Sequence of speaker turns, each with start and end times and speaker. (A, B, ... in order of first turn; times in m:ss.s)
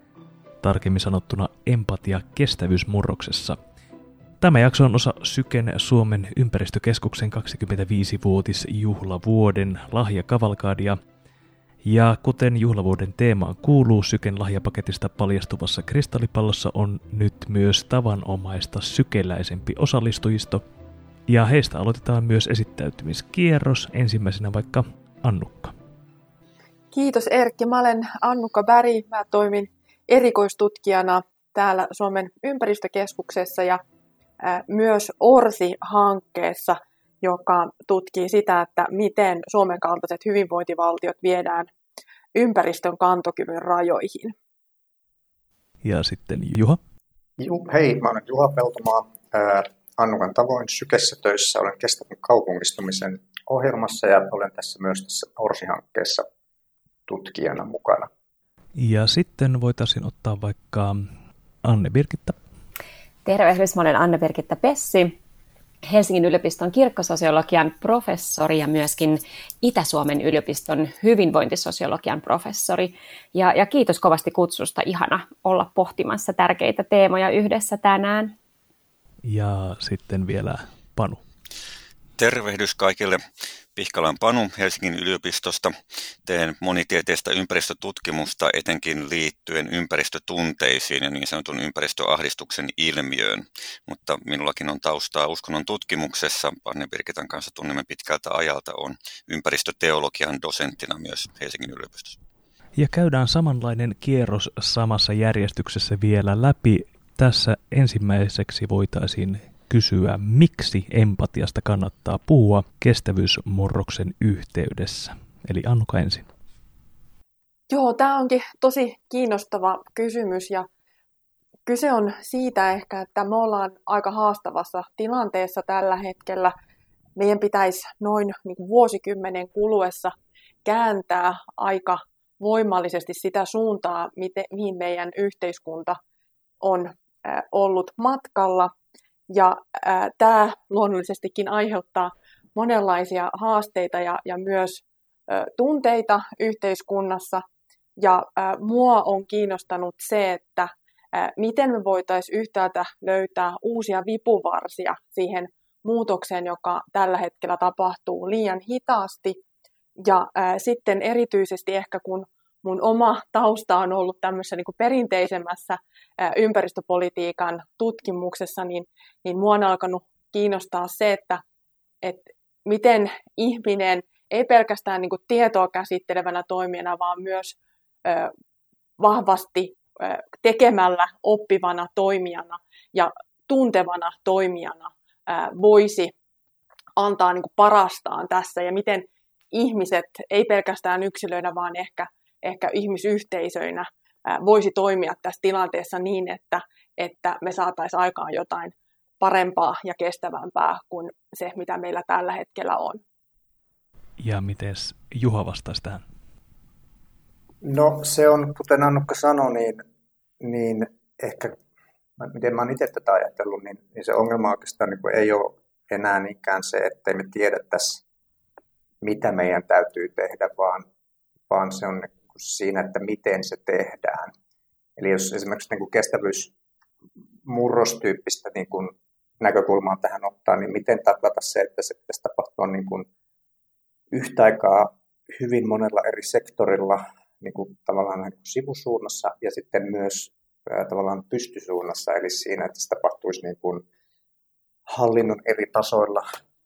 0:00.6-0:03.6 A
0:04.4-0:11.0 A
0:11.8-0:20.7 A
0:21.3-0:25.7 A
0:26.9-0:33.8 B
0:34.4-0:41.7 B
0:42.3-0:44.3 B
0:45.8-0:46.8 A
0:47.4-0:56.3 C
0:57.1-0:58.1 C
0:58.8-1:01.1 A
1:01.6-1:02.4 A
1:03.2-1:05.2 D
1:05.8-1:18.3 D
1:19.2-1:21.2 A
1:22.2-1:23.2 E
1:23.8-1:25.7 E
1:26.2-1:42.2 E
1:42.8-1:56.3 A
1:57.7-2:00.7 B
2:01.7-2:06.5 B
2:07.2-2:10.1 B
2:10.6-2:16.0 B
2:16.6-2:18.7 B
2:19.3-2:27.4 B
2:28.0-2:39.4 B
2:40.0-2:51.4 B
2:52.0-2:58.3 B
2:59.0-3:06.1 B
3:07.0-3:23.0 B
3:24.2-3:26.0 A
3:27.6-3:29.8 C
3:30.4-3:31.6 C
3:32.2-3:38.0 C
3:39.0-3:40.9 C
3:41.5-3:44.3 C
3:45.0-3:46.5 C
3:47.5-3:53.1 C
3:54.1-4:03.8 C
4:04.9-4:06.2 C